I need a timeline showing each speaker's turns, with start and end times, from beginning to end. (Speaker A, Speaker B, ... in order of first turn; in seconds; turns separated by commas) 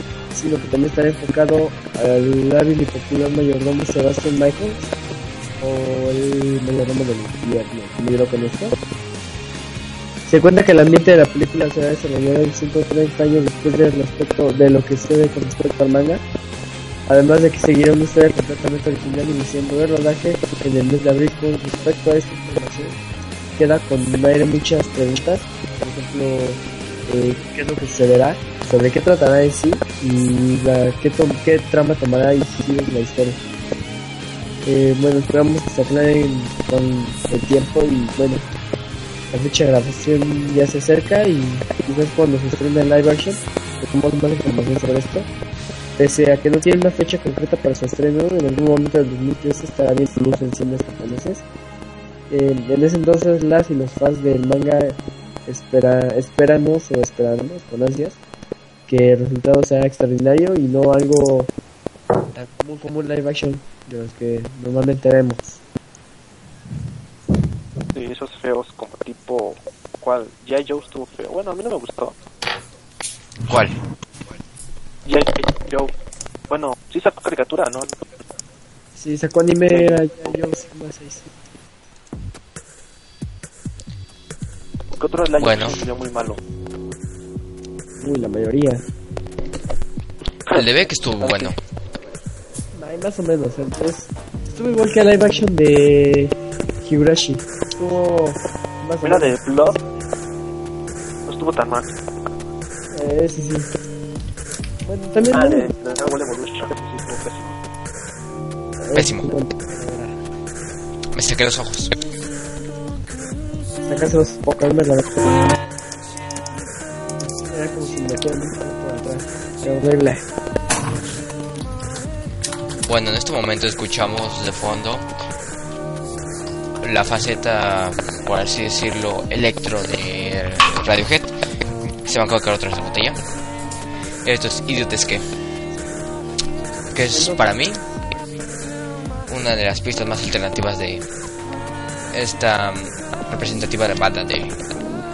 Speaker A: 0.3-4.9, Speaker A: 5.6-8.8, Speaker A: 10.3-16.2, Speaker A: 17.1-23.0, Speaker A: 23.6-33.4, Speaker A: 34.6-38.5, Speaker A: 39.3-45.3, Speaker A: 46.0-51.4, Speaker A: 52.3-58.2, Speaker A: 58.9-61.5, Speaker A: 62.3-65.6, Speaker B: 67.9-72.1, Speaker C: 73.5-73.8, Speaker B: 75.0-75.9, Speaker B: 76.5-77.9, Speaker A: 79.0-81.3, Speaker B: 79.7-80.4, Speaker B: 84.9-86.4, Speaker C: 85.4-85.8, Speaker A: 88.0-88.8, Speaker C: 90.5-91.5, Speaker A: 91.2-91.5, Speaker A: 92.7-99.4, Speaker B: 99.0-99.8, Speaker B: 101.2-101.9, Speaker A: 102.9-103.7, Speaker A: 104.8-105.7, Speaker B: 105.2-107.5, Speaker A: 108.8-110.1, Speaker C: 108.9-109.3, Speaker C: 111.1-111.9, Speaker A: 113.8-115.3, Speaker A: 117.3-120.2, Speaker C: 122.8-125.0, Speaker C: 126.8-131.3, Speaker C: 131.9-133.2, Speaker C: 134.2-135.2, Speaker C: 136.9-137.8, Speaker A: 137.1-137.4, Speaker C: 139.3-141.0, Speaker C: 142.1-144.6